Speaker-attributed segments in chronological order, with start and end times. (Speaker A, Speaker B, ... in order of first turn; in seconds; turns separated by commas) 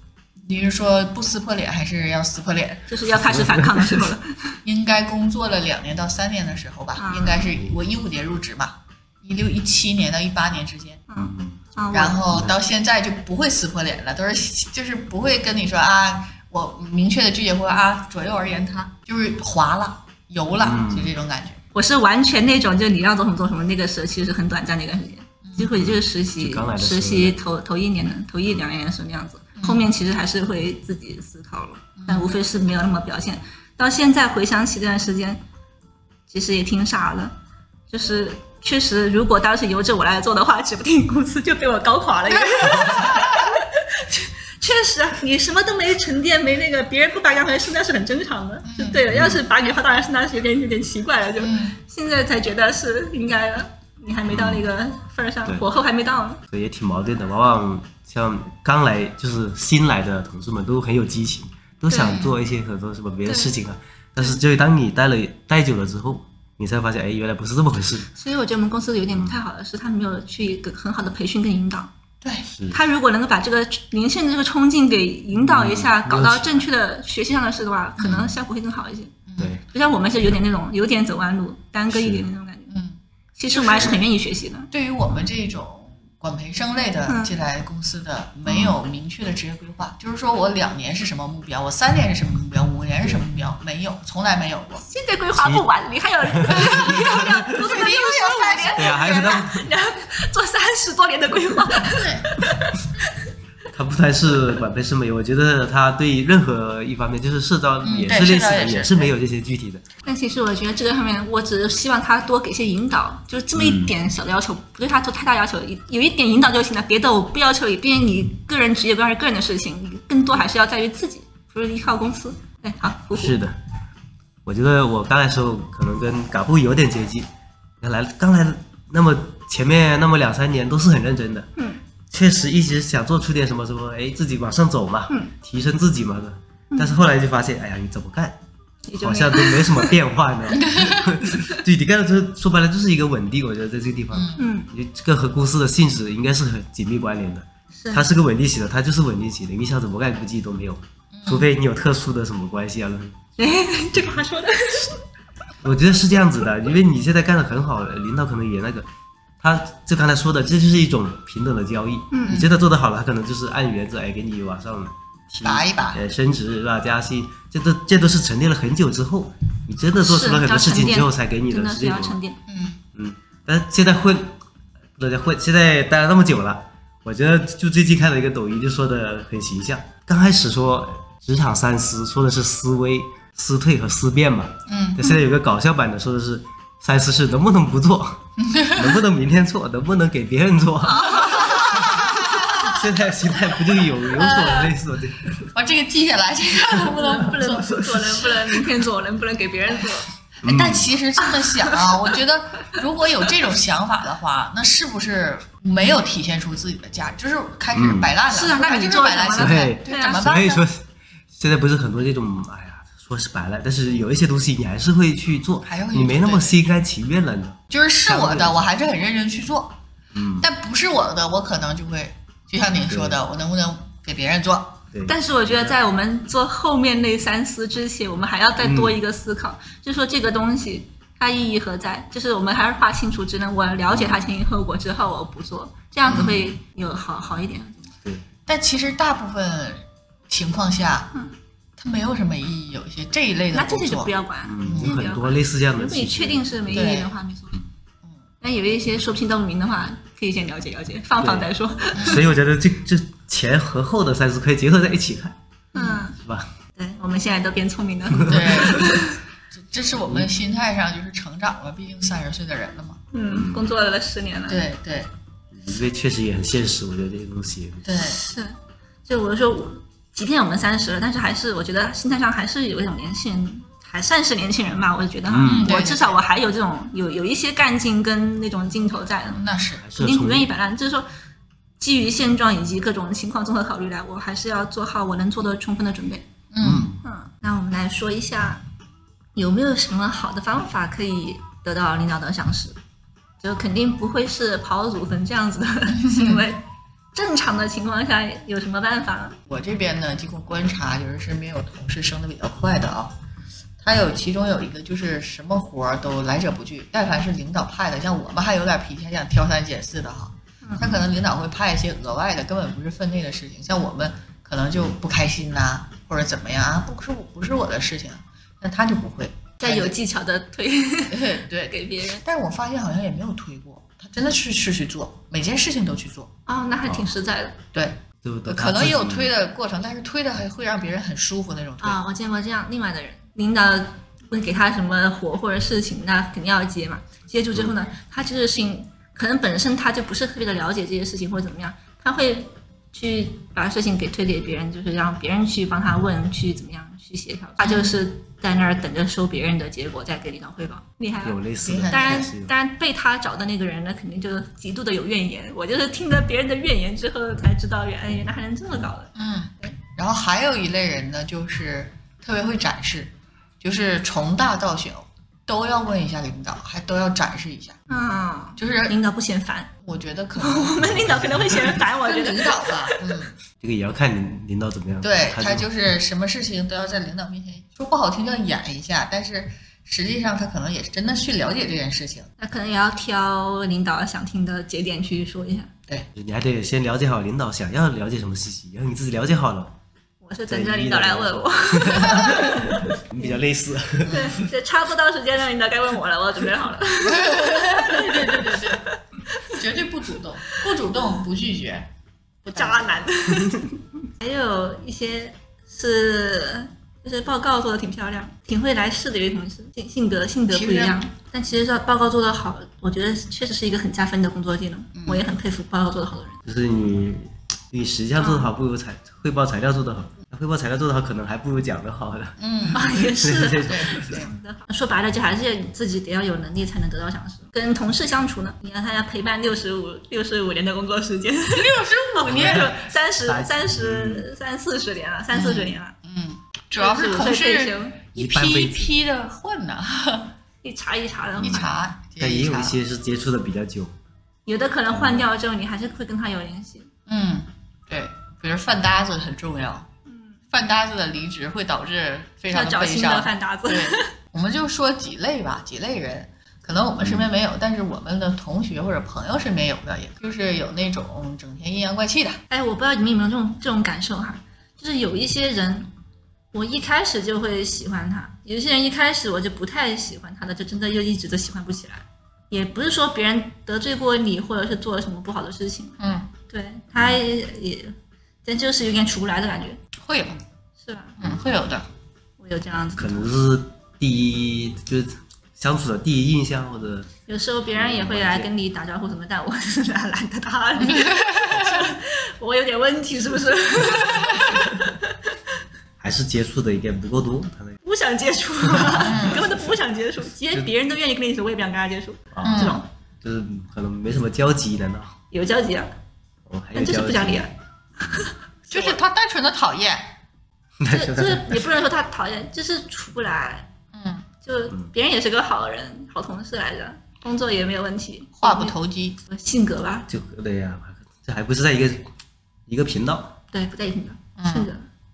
Speaker A: 0.4-2.9, Speaker B: 2.9-4.6, Speaker C: 3.1-4.1, Speaker A: 4.6-11.0, Speaker B: 7.0-7.4, Speaker B: 11.1-12.2, Speaker C: 11.2-11.6, Speaker A: 11.9-21.6, Speaker C: 20.6-21.1, Speaker B: 21.7-35.4, Speaker C: 25.7-27.4, Speaker A: 29.6-29.9, Speaker A: 32.0-32.3, Speaker B: 36.3-37.3, Speaker B: 37.9-56.4, Speaker A: 42.4-43.4, Speaker A: 48.6-49.0, Speaker C: 49.1-49.4, Speaker A: 51.4-51.8, Speaker C: 54.3-54.6, Speaker C: 56.5-68.1, Speaker B: 61.9-62.2, Speaker A: 62.0-62.4, Speaker B: 63.2-63.5, Speaker B: 68.1-71.9, Speaker A: 72.2-72.5, Speaker C: 72.5-72.8, Speaker B: 72.7-79.1, Speaker C: 75.3-76.7, Speaker A: 78.0-78.3, Speaker A: 79.3-79.6, Speaker C: 79.4-79.6, Speaker B: 79.7-82.7, Speaker C: 81.9-82.2, Speaker A: 82.7-83.0, Speaker B: 83.4-84.7, Speaker A: 83.5-84.0, Speaker A: 84.7-94.8, Speaker B: 87.1-87.3, Speaker C: 88.5-88.8, Speaker B: 94.9-103.1, Speaker C: 95.4-95.6, Speaker C: 96.3-97.4, Speaker A: 96.5-99.1, Speaker C: 98.8-99.7, Speaker A: 101.8-102.3, Speaker C: 103.7-109.8, Speaker A: 107.8-109.1, Speaker B: 110.0-123.4, Speaker C: 113.5-113.9, Speaker C: 123.1-123.6, Speaker C: 124.4-127.3, Speaker C: 127.8-131.5, Speaker C: 132.1-138.4, Speaker B: 136.7-137.0, Speaker B: 138.8-139.9, Speaker C: 139.0-153.2, Speaker A: 140.7-141.1, Speaker A: 144.1-144.4, Speaker B: 144.4-144.7, Speaker B: 147.8-148.1, Speaker A: 151.1-151.5, Speaker B: 153.4-155.0, Speaker C: 155.6-158.9, Speaker C: 159.4-172.2, Speaker B: 162.1-162.4, Speaker A: 162.3-162.5, Speaker A: 165.4-166.0, Speaker B: 170.0-172.4, Speaker A: 172.5-172.8, Speaker C: 172.9-174.4, Speaker C: 175.0-188.2, Speaker A: 184.7-185.2, Speaker A: 188.4-189.0, Speaker C: 188.7-195.5, Speaker B: 190.9-191.8, Speaker A: 191.4-192.8, Speaker A: 194.1-194.8, Speaker A: 195.5-198.4, Speaker B: 196.8-200.1, Speaker A: 200.4-210.6, Speaker C: 200.4-200.9, Speaker B: 201.3-201.8, Speaker C: 207.7-208.1, Speaker B: 208.3-210.2, Speaker C: 209.3-218.6, Speaker A: 215.6-216.6, Speaker A: 217.7-219.8, Speaker C: 220.1-220.4, Speaker A: 220.4-224.8, Speaker C: 222.9-223.2, Speaker C: 224.9-225.8, Speaker B: 225.1-237.9, Speaker C: 228.6-229.0, Speaker C: 233.9-234.2, Speaker A: 236.1-236.4, Speaker C: 236.1-236.3, Speaker A: 238.5-241.1, Speaker A: 241.8-244.1, Speaker B: 243.5-247.6, Speaker C: 244.4-246.7, Speaker A: 244.6-244.9, Speaker A: 246.7-247.1, Speaker B: 248.4-252.2, Speaker C: 251.2-255.4, Speaker A: 251.9-252.2, Speaker B: 255.7-256.2, Speaker A: 255.7-256.0, Speaker C: 256.2-256.5, Speaker B: 256.8-259.2, Speaker C: 258.2-258.8, Speaker A: 258.2-263.0, Speaker B: 263.1-264.6, Speaker C: 263.3-263.7, Speaker A: 264.5-265.1, Speaker C: 265.5-267.9, Speaker A: 267.8-268.2, Speaker B: 268.0-279.4, Speaker C: 275.3-275.7, Speaker A: 275.4-276.2, Speaker A: 279.3-279.8, Speaker C: 279.8-280.5, Speaker B: 280.0-281.1, Speaker B: 281.8-286.3, Speaker A: 286.5-286.9, Speaker C: 286.6-287.0, Speaker B: 287.0-288.6, Speaker B: 289.3-292.8, Speaker B: 293.4-299.4, Speaker A: 296.0-296.4, Speaker A: 299.5-303.1, Speaker A: 303.8-319.9, Speaker B: 310.6-311.0, Speaker B: 319.6-322.2, Speaker A: 321.1-326.3, Speaker B: 326.5-327.6, Speaker A: 327.7-332.0, Speaker C: 328.2-329.3, Speaker B: 331.8-359.7, Speaker A: 347.6-347.9, Speaker C: 351.2-352.5, Speaker A: 351.6-352.3, Speaker A: 359.1-367.8, Speaker B: 367.9-369.7, Speaker A: 368.6-369.0, Speaker A: 369.8-371.1, Speaker B: 370.4-373.0, Speaker C: 370.8-371.6, Speaker A: 371.7-373.4, Speaker C: 373.6-375.7, Speaker A: 375.0-382.3, Speaker B: 382.4-385.7, Speaker C: 386.1-389.8, Speaker B: 390.2-393.4, Speaker C: 390.5-394.5, Speaker B: 394.1-399.5, Speaker A: 397.1-398.8, Speaker A: 399.5-401.9, Speaker A: 402.4-403.0, Speaker B: 402.5-403.6, Speaker B: 404.2-416.4, Speaker A: 410.5-411.0, Speaker A: 414.9-415.2, Speaker C: 416.4-424.2, Speaker B: 418.2-418.5, Speaker A: 422.4-422.9, Speaker B: 422.7-435.9, Speaker A: 423.6-424.2, Speaker A: 431.5-432.8, Speaker C: 432.2-434.3, Speaker A: 435.3-440.3, Speaker B: 436.7-438.1, Speaker C: 438.1-438.9, Speaker B: 440.6-441.7, Speaker A: 441.4-442.8, Speaker C: 442.2-443.9, Speaker B: 444.5-446.9, Speaker C: 444.9-445.2, Speaker A: 447.1-449.9, Speaker B: 450.1-450.3, Speaker A: 450.5-462.4, Speaker B: 452.5-454.1, Speaker C: 457.0-457.3, Speaker B: 462.5-465.9, Speaker B: 466.5-476.0, Speaker A: 476.0-476.3, Speaker B: 476.5-479.8, Speaker A: 480.0-480.4, Speaker B: 480.8-481.2, Speaker A: 481.2-481.9, Speaker B: 482.4-483.2, Speaker C: 483.0-487.1, Speaker B: 487.3-495.2, Speaker C: 487.7-488.5, Speaker A: 490.8-491.9, Speaker C: 496.0-497.8, Speaker B: 497.8-502.9, Speaker C: 498.6-499.3, Speaker A: 499.0-499.4, Speaker C: 502.3-505.1, Speaker A: 502.4-502.8, Speaker B: 505.3-505.9, Speaker C: 506.4-507.4, Speaker B: 506.7-509.0, Speaker A: 508.7-510.1, Speaker C: 510.8-511.6, Speaker B: 510.9-513.7, Speaker A: 513.9-514.2, Speaker B: 514.4-518.7, Speaker A: 518.4-519.2, Speaker B: 519.3-520.1, Speaker C: 520.1-522.1, Speaker C: 522.7-523.3, Speaker B: 523.5-524.9, Speaker A: 524.4-524.7